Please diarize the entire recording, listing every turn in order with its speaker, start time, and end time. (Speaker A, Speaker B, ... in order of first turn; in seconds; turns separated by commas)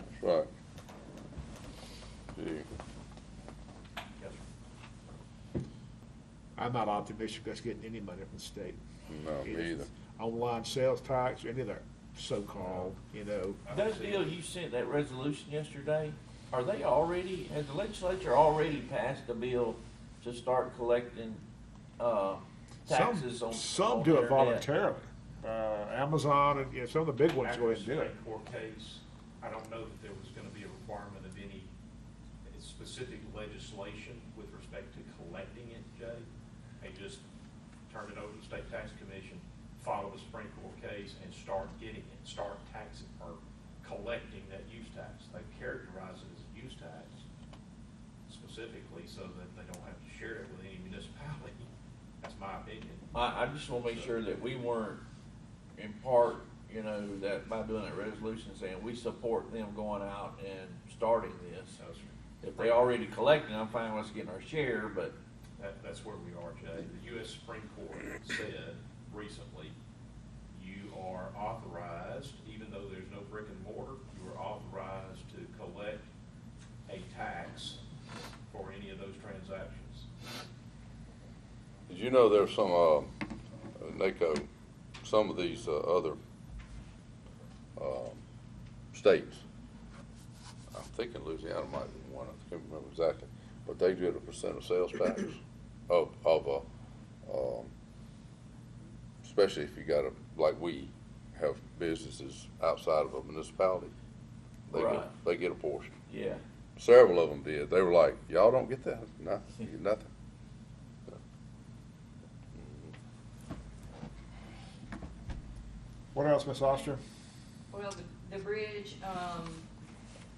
Speaker A: 0.1-0.5, Speaker A: 2.3-2.7, Speaker B: 4.2-4.4, Speaker C: 6.5-8.8, Speaker A: 9.1-9.9, Speaker C: 9.4-13.6, Speaker B: 13.6-14.3, Speaker D: 13.7-21.4, Speaker D: 22.0-24.7, Speaker C: 22.9-28.1, Speaker B: 27.4-31.7, Speaker B: 32.5-36.2, Speaker B: 36.8-37.2, Speaker B: 37.9-47.2, Speaker B: 48.3-51.7, Speaker B: 52.2-53.1, Speaker D: 53.1-55.0, Speaker B: 53.7-54.1, Speaker D: 55.8-61.8, Speaker B: 61.8-62.7, Speaker D: 62.4-65.2, Speaker B: 65.6-69.8, Speaker B: 70.5-76.0, Speaker B: 76.8-77.8, Speaker B: 78.5-80.1, Speaker A: 81.9-83.1, Speaker A: 83.8-84.5, Speaker A: 85.0-86.2, Speaker A: 87.8-88.2, Speaker A: 88.9-89.4, Speaker A: 90.7-96.6, Speaker A: 97.2-97.7, Speaker A: 99.2-103.9, Speaker A: 104.7-106.0, Speaker D: 104.7-105.1, Speaker D: 106.1-106.4, Speaker A: 106.8-110.1, Speaker A: 112.5-112.9, Speaker C: 116.1-117.0, Speaker E: 117.7-119.7